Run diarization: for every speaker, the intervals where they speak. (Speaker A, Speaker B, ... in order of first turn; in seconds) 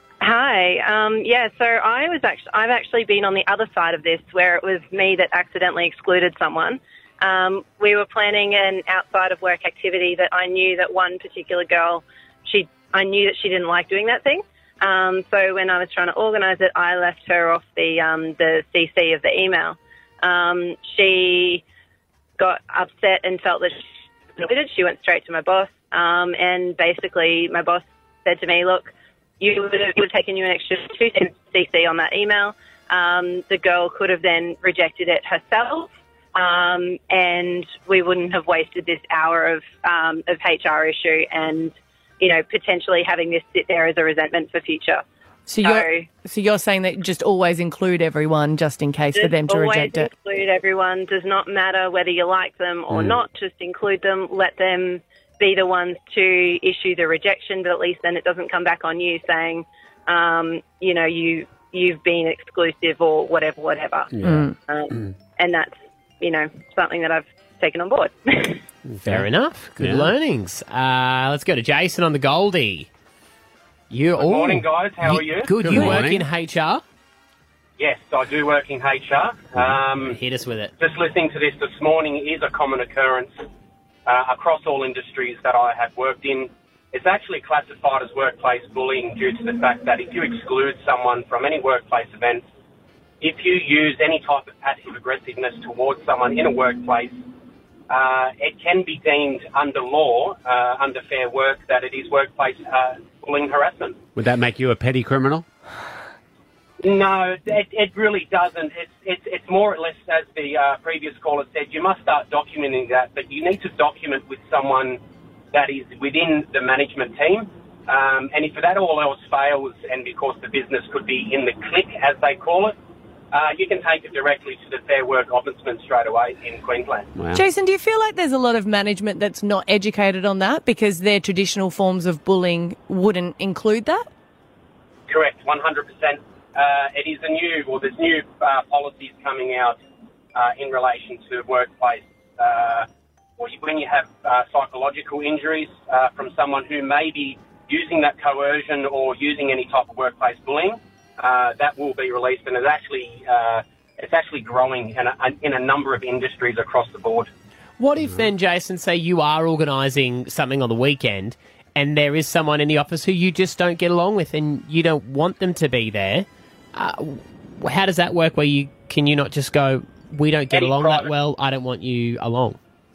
Speaker A: 0.2-21.6, 22.4-23.8, 24.4-45.0, 45.6-46.0, 49.1-68.6
Speaker B: 45.5-50.1, 64.2-64.5, 127.3-134.0
Speaker C: 52.9-53.2, 64.1-65.1, 68.9-69.3, 69.8-70.1, 75.6-76.2, 104.2-105.5, 127.2-127.4
Speaker D: 69.0-72.9, 73.9-76.8, 80.1-80.7, 157.8-172.6
Speaker E: 74.2-75.9, 77.8-80.2, 80.8-83.3, 84.0-92.4, 93.2-97.1, 97.9-104.0, 106.8-115.0, 115.5-122.7, 123.3-127.1, 135.1-139.8, 140.3-142.8, 143.4-157.3, 170.5-171.1